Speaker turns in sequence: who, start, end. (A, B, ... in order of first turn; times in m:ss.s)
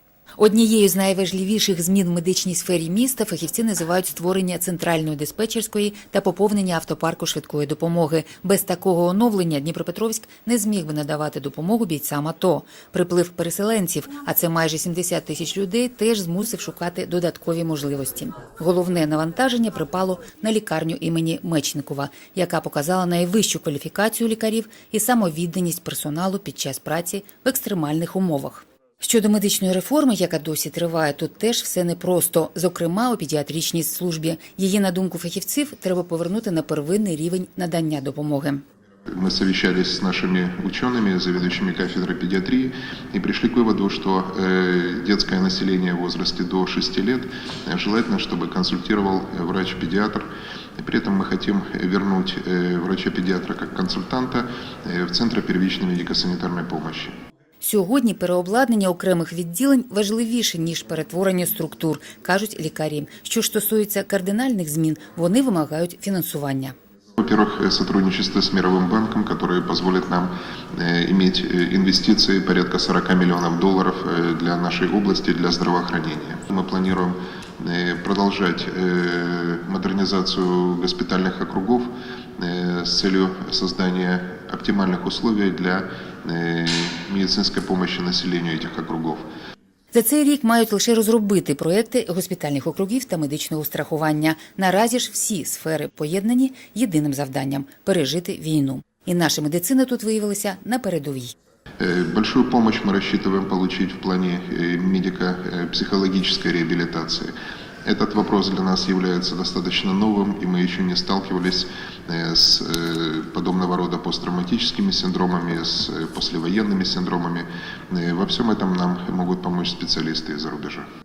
0:00.4-0:38.6 A
0:39.1-0:57.1 B
0:57.6-1:06.7 A
1:07.2-1:29.2 B
1:29.9-1:41.3 A
1:41.8-1:47.3 B
1:47.8-2:00.9 B